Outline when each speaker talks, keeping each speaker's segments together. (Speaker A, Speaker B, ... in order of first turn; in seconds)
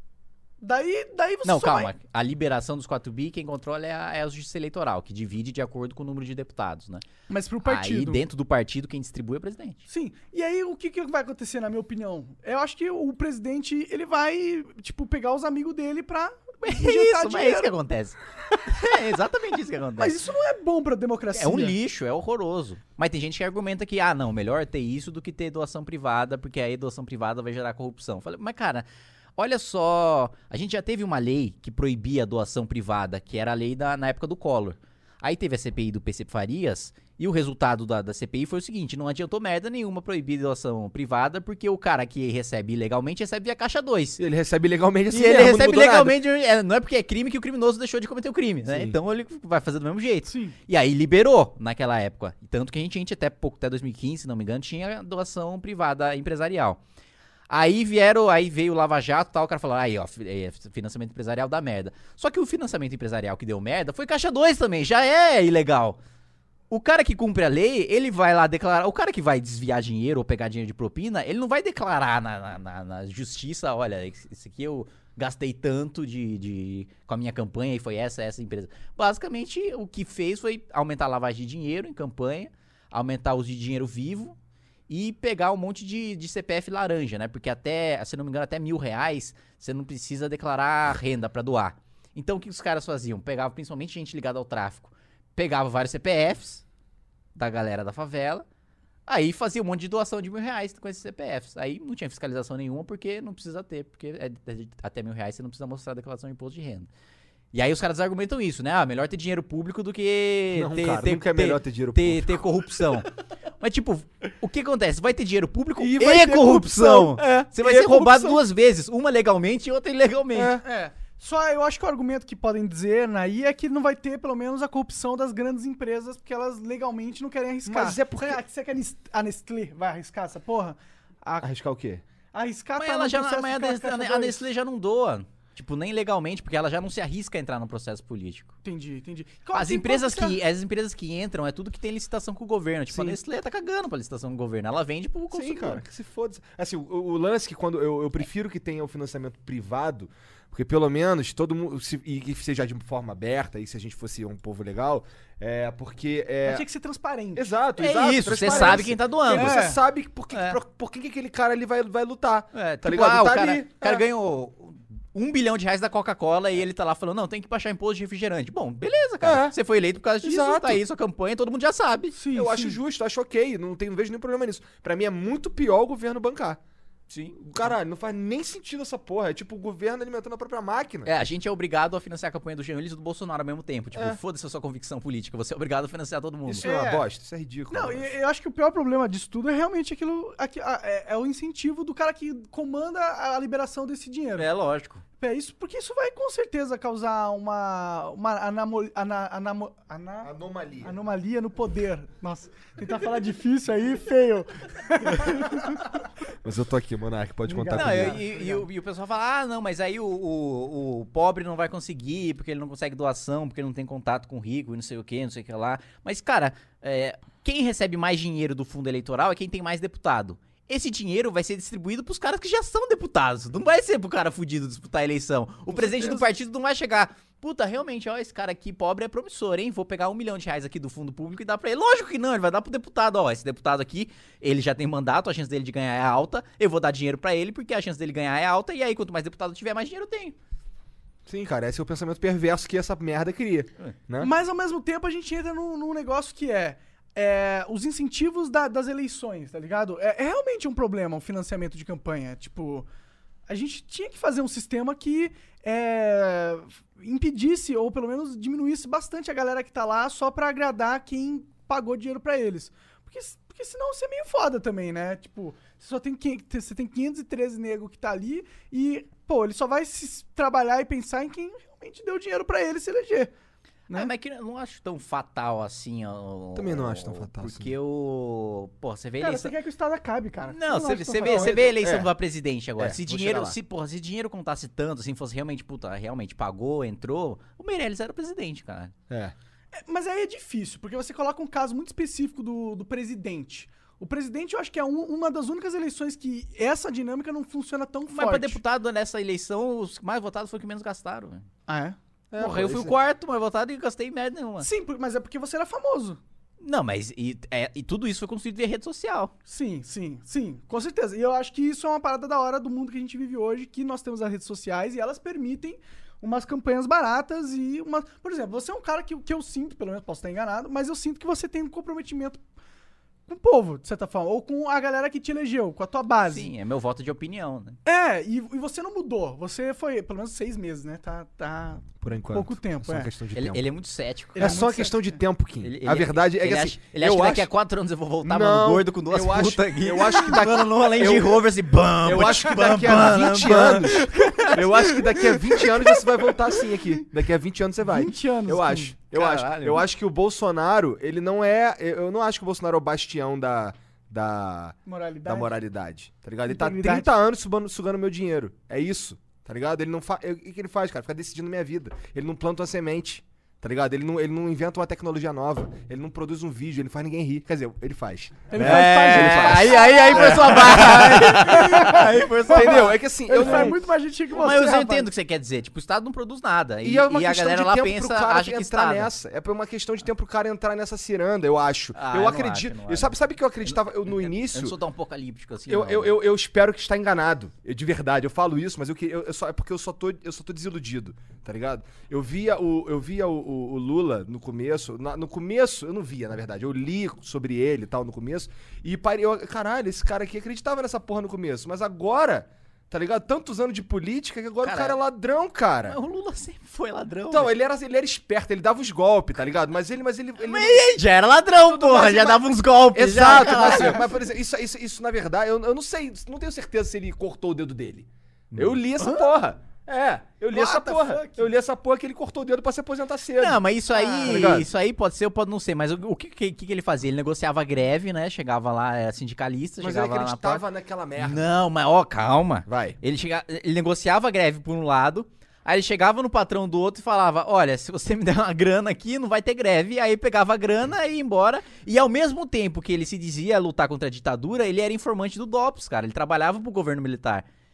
Speaker A: 0.6-1.9, 7.3-8.2, 9.9-17.7, 20.0-21.8, 50.3-50.5, 117.2-117.5, 120.6-131.5, 132.3-134.4, 138.6-140.4, 156.4-157.5, 158.3-159.8, 172.1-172.8, 186.6-187.0, 187.7-194.5, 195.2-205.9, 207.5-208.6, 225.7-226.2, 244.2-252.9, 253.5-273.3, 279.2-281.6, 289.7-298.6, 301.7-302.0, 304.6-306.2, 309.5-322.4, 323.3-326.5, 327.9-333.1, 334.4-335.0, 347.8-348.9, 354.9-355.5, 356.4-357.1, 368.5-375.1, 413.3-414.0, 420.5-421.5, 423.9-424.5
Speaker B: 1.4-7.0, 7.6-9.8, 16.6-20.2, 21.3-28.9, 29.4-44.2, 45.1-56.8, 57.5-66.0, 66.7-84.3, 84.9-96.6, 97.3-98.4, 99.1-106.9, 107.5-113.1, 113.6-120.6, 132.8-138.5, 139.5-145.8, 157.8-159.6, 160.3-160.6, 162.5-172.2, 177.1-177.7, 181.1-186.7, 194.4-195.0, 207.7-240.3, 273.9-279.5, 280.5-288.9, 298.1-301.4, 302.4-304.7, 306.6-309.3, 326.3-327.8, 333.3-334.5, 335.6-344.9, 349.1-349.8, 368.6-373.7, 374.3-379.1, 381.9-386.2, 404.6-405.0, 405.9-407.5, 410.4-414.0, 418.5-419.1, 423.4-430.6, 431.2-447.4
Speaker C: 44.2-46.2, 48.7-49.0, 110.5-112.6, 115.8-118.4, 120.3-120.6, 127.7-128.4, 131.4-132.0, 145.3-156.6, 157.3-164.0, 169.2-169.6, 170.2-170.8, 172.3-176.6, 177.3-181.1, 183.9-184.2, 186.4-188.1, 200.2-200.9, 206.4-208.2, 241.2-244.3, 276.5-277.7, 281.2-282.1, 282.8-283.6, 302.3-302.9, 332.0-333.6, 334.3-337.5, 338.2-341.4, 342.0-373.8, 376.8-384.8, 385.7-406.0, 407.3-411.0, 411.6-423.6, 424.2-424.7, 429.8-431.5, 432.6-433.0